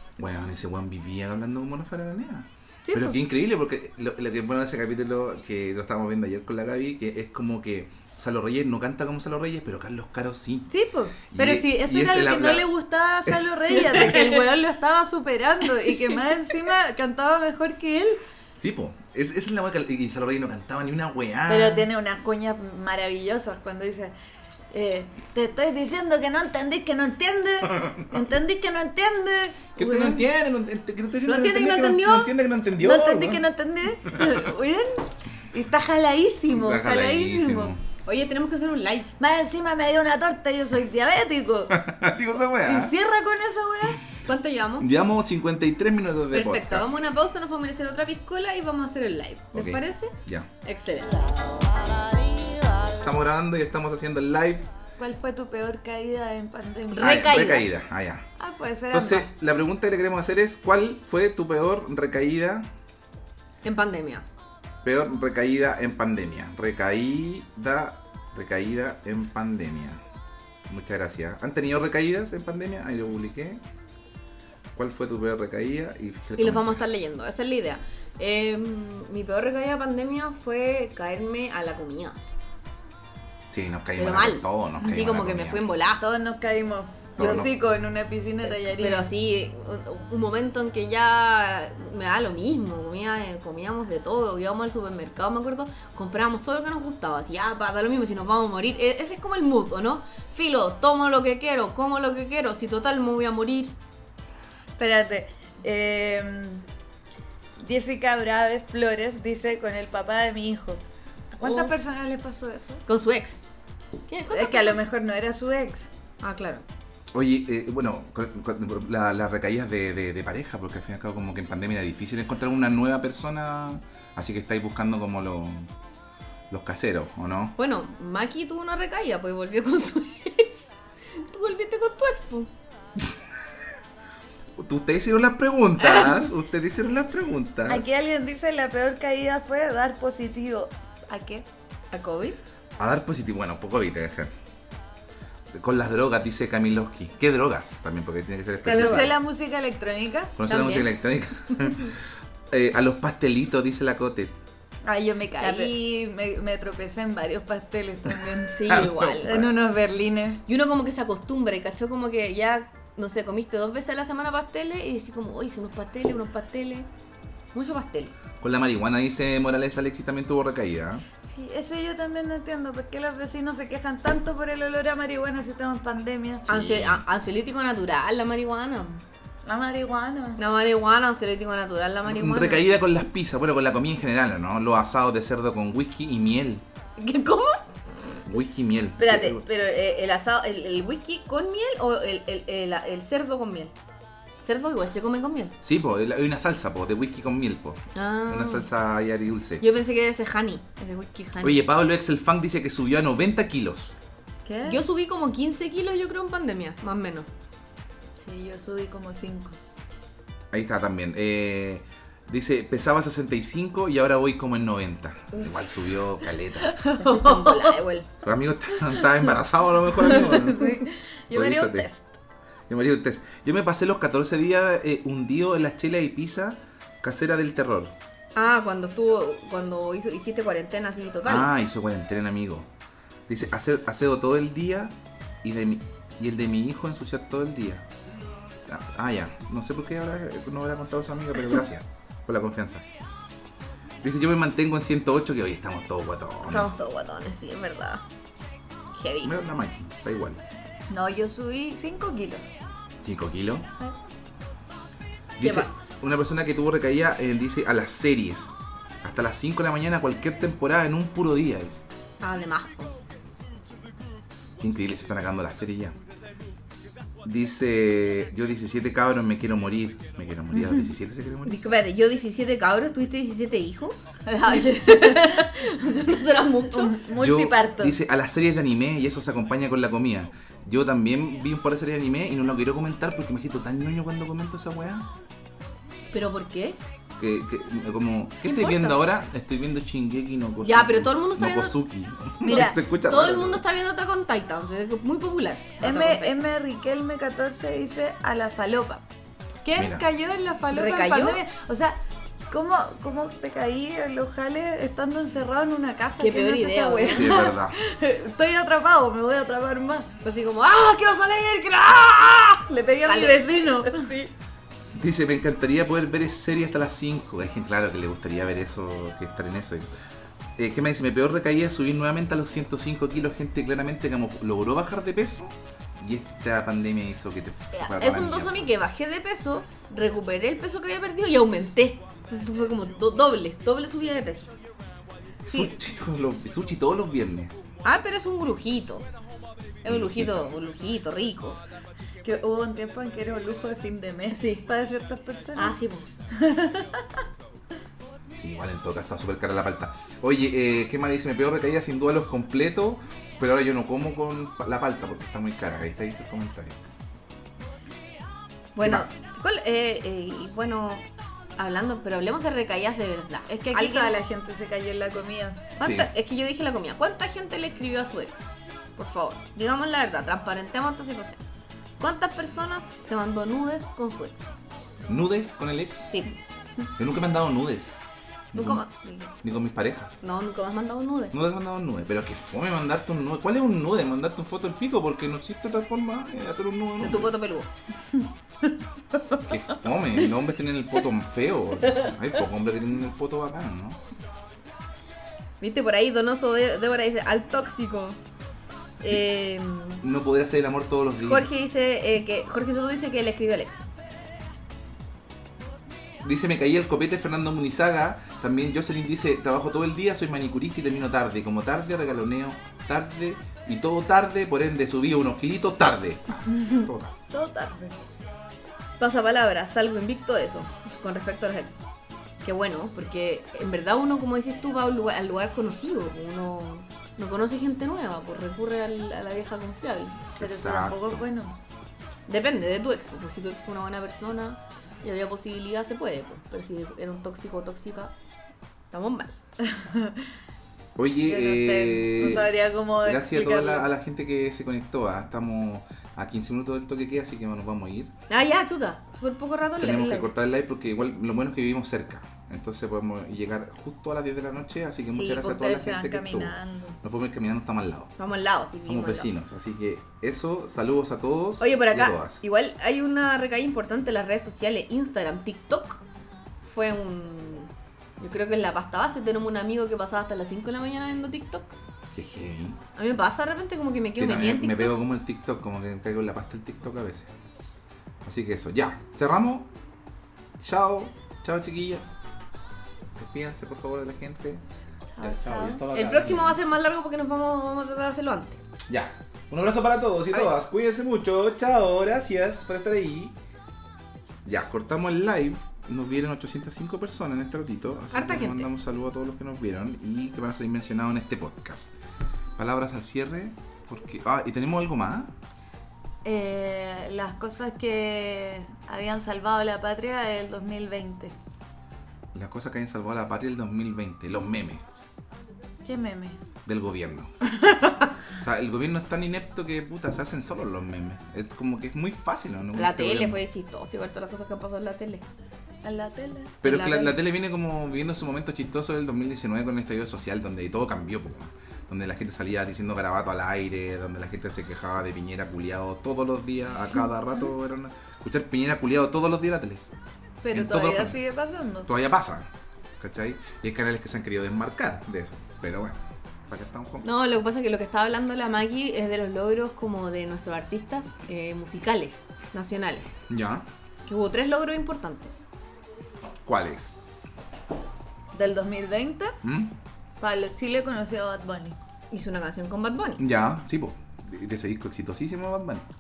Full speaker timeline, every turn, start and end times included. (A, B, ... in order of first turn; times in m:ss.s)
0:00.2-0:10.7 A
0:02.8-0:03.2 B
0:10.7-0:18.2 B
0:11.3-0:12.7 A
0:14.0-0:14.4 C
0:18.6-0:21.9 A
0:21.5-0:24.1 B
0:24.7-0:30.2 B
0:27.7-0:28.0 A
0:29.8-0:33.4 A
0:31.2-0:32.3 C
0:32.8-0:37.8 B
0:34.1-0:34.4 A
0:36.5-0:37.8 A
0:38.0-0:39.1 C
0:39.2-0:41.8 B
0:41.7-0:42.9 A
0:42.6-0:44.0 B
0:44.3-0:44.9 C
0:44.8-0:46.9 A
0:46.3-0:51.1 C
0:49.5-0:50.5 A
0:53.0-0:54.7 A
0:55.0-0:57.6 B
0:56.9-0:57.6 C
0:57.0-0:58.2 A
0:58.4-0:59.3 B
0:58.9-1:02.7 A
1:03.6-1:04.2 C
1:04.8-1:10.0 A
1:10.7-1:13.6 A
1:14.8-1:16.8 A
1:16.4-1:22.2 C
1:23.5-1:25.7 A
1:24.0-1:26.0 C
1:26.0-1:29.0 B
1:27.2-1:27.5 A
1:28.6-1:43.7 C
1:44.8-1:46.6 B
1:47.6-1:50.8 B
1:51.4-1:51.7 C
1:51.4-1:52.8 B
1:52.9-1:53.5 C
1:54.1-1:54.8 C
1:54.3-1:55.9 B
1:56.2-1:56.6 C
1:57.1-2:05.7 A
2:06.5-2:07.5 A
2:07.6-2:12.5 C
2:14.6-2:17.9 A
2:15.8-2:16.2 C
2:17.7-2:21.5 B
2:21.9-2:22.4 C
2:22.8-2:24.3 A
2:25.5-2:29.1 A
2:28.6-2:29.2 C
2:28.7-2:30.3 B
2:30.4-2:34.3 A
2:30.4-2:30.9 C
2:31.5-2:31.9 C
2:34.8-2:38.6 B
2:35.4-2:35.7 C
2:38.5-2:39.5 C
2:38.7-2:39.5 A
2:39.2-2:40.4 B
2:40.5-2:46.9 C
2:47.5-2:48.1 C
2:48.4-2:51.0 A
2:51.2-2:56.5 B
2:56.5-2:57.0 A
2:56.5-2:59.0 C
2:59.5-3:00.4 B
3:00.4-3:02.7 C
3:02.0-3:06.6 A
3:07.0-3:07.6 C
3:08.2-3:09.4 A
3:09.0-3:13.7 C
3:14.4-3:15.6 C
3:15.6-3:19.6 A
3:18.0-3:18.7 C
3:19.6-3:21.6 C
3:21.4-3:23.9 A
3:24.4-3:24.8 B
3:24.7-3:27.3 C
3:28.2-3:29.6 B
3:30.5-3:36.7 A
3:35.3-3:35.6 C
3:36.6-3:37.8 B
3:37.0-3:38.1 C
3:38.2-3:40.7 A
3:38.8-3:39.2 B
3:39.9-3:42.2 B
3:41.3-3:41.9 A
3:42.7-3:47.9 A
3:48.4-3:51.5 C
3:51.2-3:52.7 A
3:53.3-3:57.9 A
3:58.7-4:02.8 A
4:04.0-4:06.7 A
4:06.5-4:08.0 C
4:09.0-4:09.3 C
4:09.2-4:10.4 A
4:10.9-4:12.4 B
4:13.0-4:13.7 A
4:15.4-4:21.8 A
4:15.4-4:15.7 C
4:22.2-4:22.9 C
4:24.6-4:26.0 A
4:27.2-4:31.6 A
4:30.5-4:30.9 B
4:31.5-4:37.0 C
4:34.3-4:35.7 B
4:36.7-4:38.0 B
4:37.1-4:45.1 A
4:46.1-4:46.8 C
4:47.2-4:53.6 A
4:48.4-4:49.0 C
4:50.6-4:51.8 C
4:52.4-4:56.4 C
4:52.4-4:52.8 B
4:55.8-4:59.0 B
4:59.6-5:02.0 B
4:59.8-5:00.0 A
5:00.7-5:01.4 C
5:02.5-5:10.1 B
5:06.2-5:07.5 C
5:07.1-5:07.8 A
5:10.2-5:14.3 C
5:12.7-5:14.1 B
5:14.9-5:19.9 A
5:20.6-5:28.7 A
5:27.7-5:34.5 C
5:35.4-5:37.6 A
5:37.8-5:39.1 C
5:39.8-5:41.6 C
5:39.8-5:40.5 A
5:42.2-5:45.8 B
5:44.3-5:44.7 C
5:45.6-5:46.1 C
5:46.3-5:47.2 B
5:48.4-5:56.8 A
5:58.8-6:01.0 C
5:58.8-5:59.1 A
6:01.6-6:04.2 C
6:03.5-6:05.6 B
6:05.8-6:11.4 C
6:05.8-6:06.1 A
6:12.0-6:14.5 C
6:15.1-6:16.1 A
6:16.1-6:16.4 C
6:17.0-6:18.0 A
6:18.5-6:18.8 A
6:18.5-6:19.4 C
6:19.4-6:20.2 A
6:20.2-6:21.4 C
6:21.3-6:27.3 A
6:27.0-6:27.7 C
6:28.6-6:29.4 B
6:29.4-6:34.0 A
6:35.6-6:38.2 C
6:39.0-6:40.0 C
6:40.0-6:41.5 A
6:41.2-6:43.9 C
6:46.2-6:57.2 A
6:56.5-6:58.0 B
6:59.0-7:01.8 C
7:02.4-7:10.3 C
7:10.4-7:11.2 A
7:10.4-7:11.6 B
7:12.3-7:18.1 C
7:18.9-7:19.4 C
7:19.6-7:20.3 B
7:21.0-7:28.1 A
7:21.2-7:23.9 B
7:28.3-7:30.3 C
7:29.8-7:38.1 A
7:35.1-7:37.0 B
7:38.2-7:39.3 C
7:38.8-7:42.4 A
7:41.6-7:46.0 C
7:46.6-7:51.8 C
7:52.1-7:52.8 A
7:53.0-7:55.0 C
7:54.2-7:57.3 A
7:58.2-7:59.7 A
8:00.6-8:02.2 A
8:03.2-8:04.6 A
8:05.1-8:05.8 B
8:05.2-8:06.6 A
8:05.9-8:08.6 C
8:08.9-8:13.4 A
8:14.4-8:21.9 A
8:18.1-8:18.7 C
8:22.6-8:25.3 A
8:26.2-8:31.4 B
8:32.3-8:35.1 A
8:35.8-8:36.4 B
8:36.7-8:37.3 A
8:38.4-8:43.4 A
8:42.8-8:45.2 C
8:45.8-8:46.6 B
8:46.6-8:47.2 C
8:46.6-8:59.8 A
9:00.4-9:01.9 B
9:00.5-9:01.2 A
9:01.9-9:07.1 A
9:07.0-9:13.1 C
9:13.3-9:13.6 A
9:14.1-9:15.3 C
9:16.4-9:16.9 A
9:18.3-9:19.4 B
9:19.4-9:19.7 A
9:20.2-9:21.8 B
9:22.1-9:23.2 C
9:23.2-9:25.8 A